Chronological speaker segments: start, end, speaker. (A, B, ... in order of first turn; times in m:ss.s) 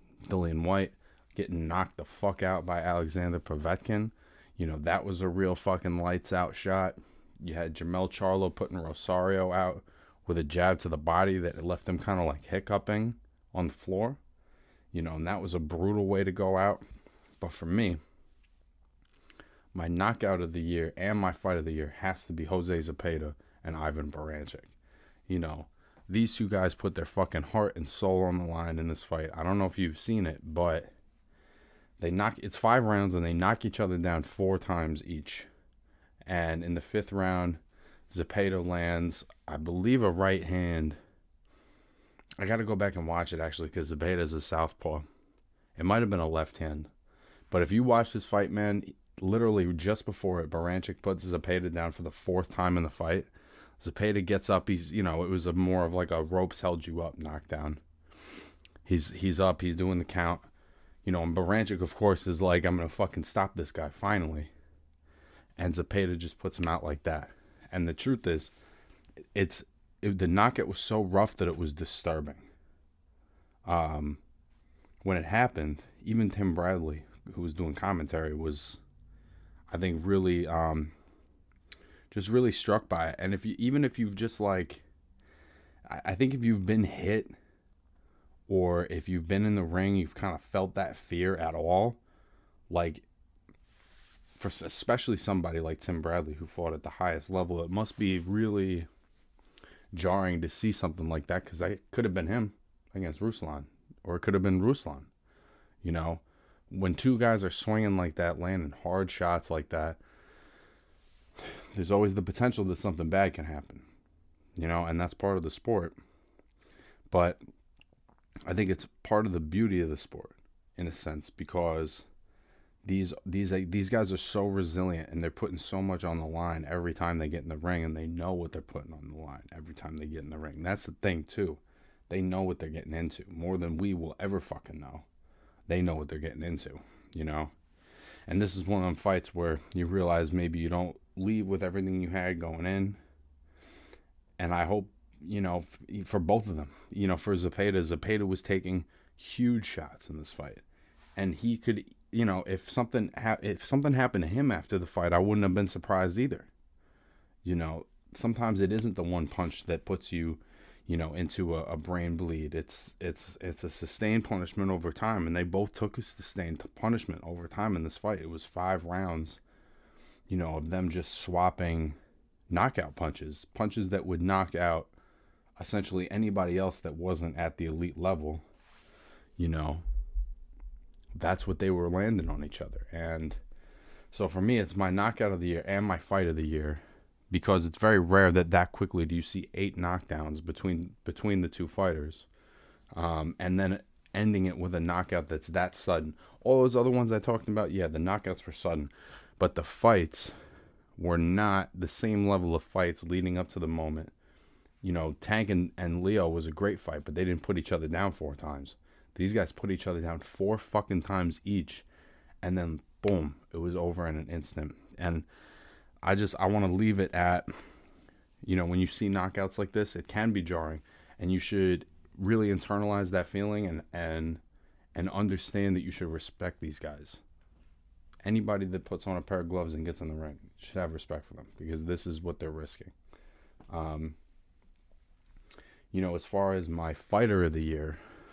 0:00.3-0:14.2 A
0:14.9-0:16.8 A
0:17.4-0:18.0 A
0:19.7-0:24.7 A
0:25.3-0:30.9 A
0:32.0-0:35.5 A
0:36.3-0:41.0 A
0:42.4-0:45.0 A
0:45.8-0:46.9 A
0:47.5-0:57.8 A
0:58.8-1:00.5 A
1:01.0-1:04.5 A
1:05.6-1:08.5 A
1:09.4-1:12.5 A
1:13.7-1:14.2 A
1:15.0-1:18.8 A
1:19.7-1:20.9 A
1:22.1-1:24.8 A
1:25.9-1:27.3 A
1:28.5-1:32.0 A
1:32.7-1:33.1 A
1:34.4-1:38.9 A
1:39.9-1:45.1 A
1:45.8-1:50.0 A
1:51.7-1:53.8 A
1:54.6-1:56.0 A
1:57.1-1:57.4 A
1:58.5-2:02.1 A
2:02.8-2:15.1 A
2:15.7-2:17.5 A
2:18.3-2:23.0 A
2:24.4-2:30.6 A
2:31.2-2:36.5 A
2:37.4-2:49.4 A
2:50.3-2:52.0 A
2:52.5-2:54.9 A
2:55.6-2:58.4 A
2:59.4-2:59.8 A
3:01.1-3:03.4 A
3:04.1-3:12.3 A
3:12.9-3:20.3 A
3:21.0-3:24.1 A
3:24.8-3:31.8 A
3:32.4-3:35.3 A
3:36.0-3:37.5 A
3:38.4-3:44.4 A
3:45.0-3:47.2 A
3:48.2-3:52.9 A
3:53.7-3:54.2 A
3:55.9-3:58.0 A